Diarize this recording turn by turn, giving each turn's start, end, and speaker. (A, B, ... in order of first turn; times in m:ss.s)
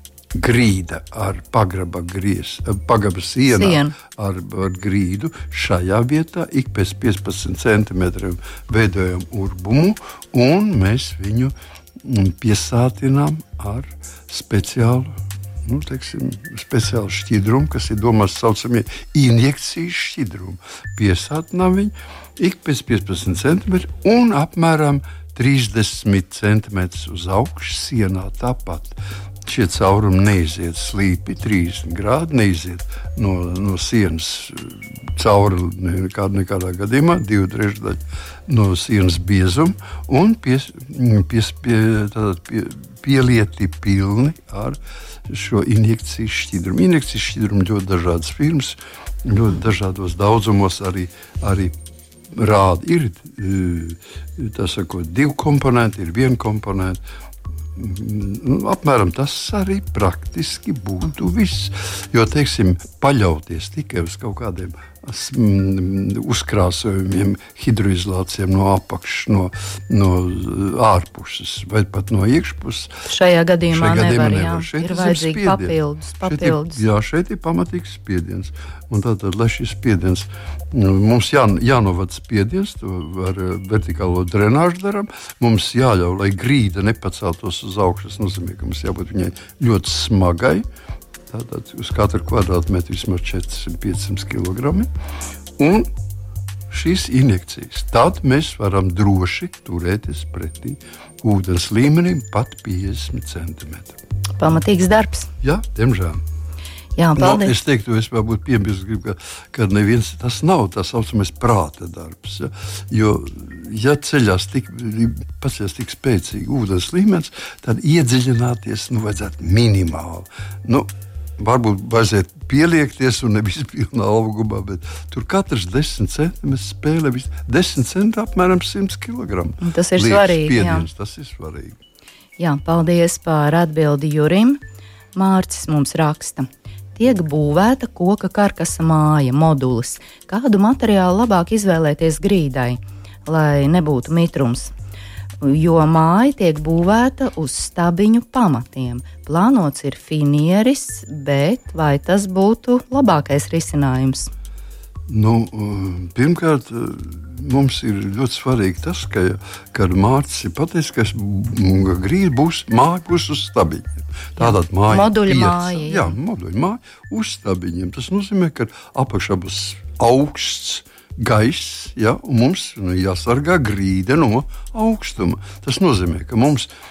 0:00.4-0:51.8 A
0:03.5-0:03.9 B
0:52.3-0:57.0 A
0:57.7-1:13.0 A
1:13.0-1:16.8 B
1:13.7-1:30.6 A
1:31.3-1:34.9 A
1:35.6-1:35.9 A
1:36.7-1:44.0 A
1:44.4-1:45.3 B
1:45.4-1:46.2 A
1:47.0-1:47.5 B
1:47.2-2:11.8 A
2:09.6-2:10.9 B
2:12.4-2:14.6 B
2:15.1-2:24.7 B
2:25.4-2:34.3 B
2:35.1-2:56.7 A
2:44.4-2:46.2 B